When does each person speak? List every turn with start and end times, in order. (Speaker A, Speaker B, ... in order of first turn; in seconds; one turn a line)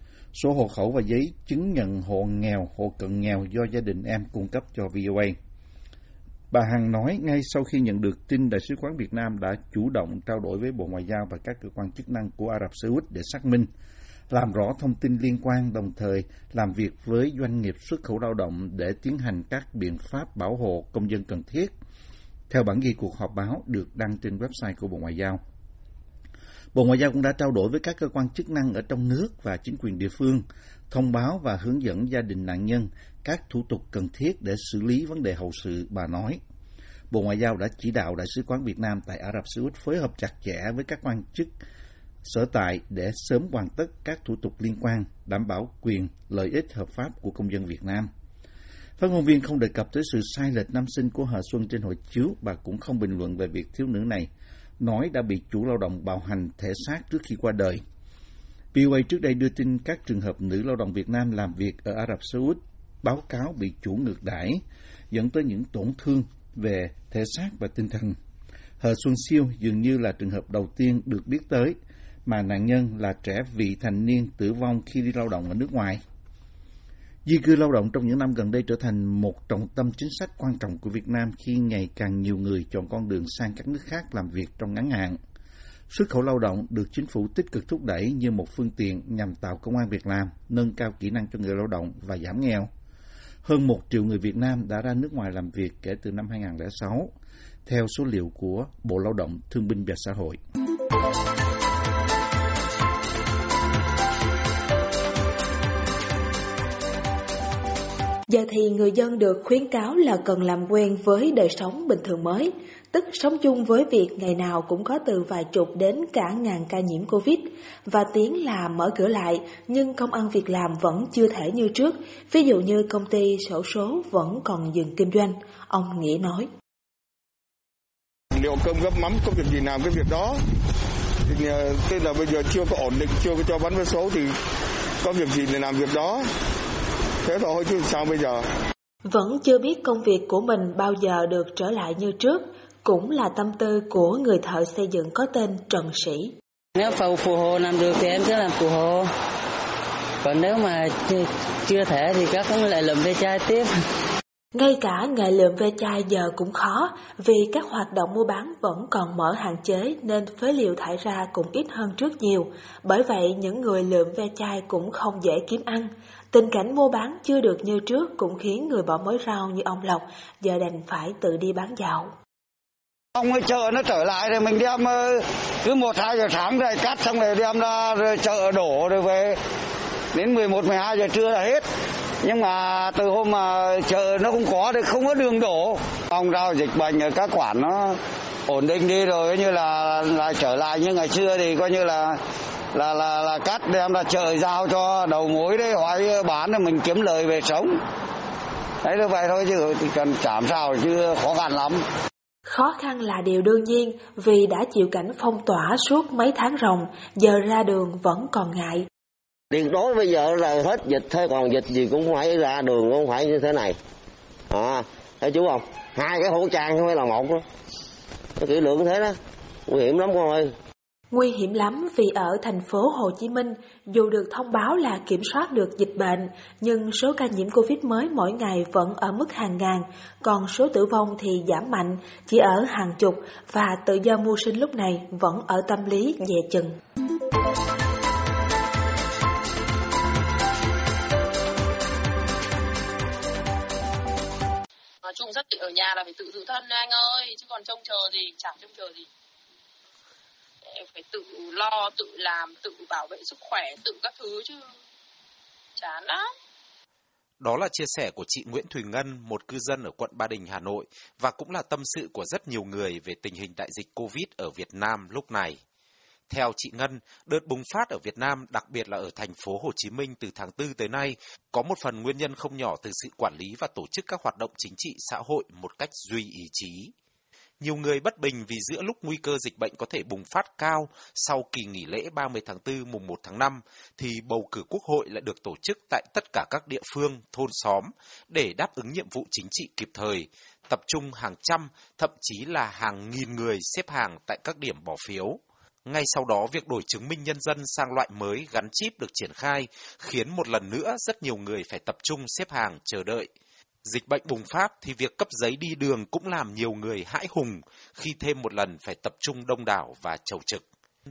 Speaker A: 0.3-5.3
Speaker A: 6.5-13.7
Speaker A: 14.3-21.7
Speaker A: 22.5-25.4
Speaker A: 26.7-36.4
Speaker A: 37.1-41.5
Speaker A: 42.2-48.1
Speaker A: 49.0-54.3
Speaker A: 54.8-57.8
Speaker A: 58.7-68.1
Speaker A: 68.8-76.0
Speaker A: 77.2-85.2
Speaker A: 85.9-92.7
Speaker A: 93.4-97.1
Speaker A: 97.7-100.4
Speaker B: 108.3-126.5
Speaker C: 128.3-130.4
Speaker C: 131.2-134.3
Speaker C: 135.0-136.3
Speaker C: 137.2-138.4
Speaker B: 139.1-146.3
Speaker D: 146.8-149.0
Speaker D: 150.2-153.7
Speaker B: 154.5-172.1
Speaker E: 173.2-179.3
Speaker E: 180.1-181.6
Speaker E: 182.2-187.9
Speaker E: 188.5-192.2
Speaker E: 192.7-197.7
Speaker E: 198.8-201.8
Speaker B: 202.5-208.8
Speaker F: 209.5-213.8
Speaker F: 214.5-217.4
Speaker F: 218.4-220.5
Speaker B: 221.1-236.7
Speaker G: 245.0-249.1
Speaker G: 250.6-254.7
Speaker G: 255.8-256.2
Speaker H: 257.4-265.6
Speaker H: 266.3-276.9
Speaker H: 277.6-303.3
Speaker H: 303.8-310.6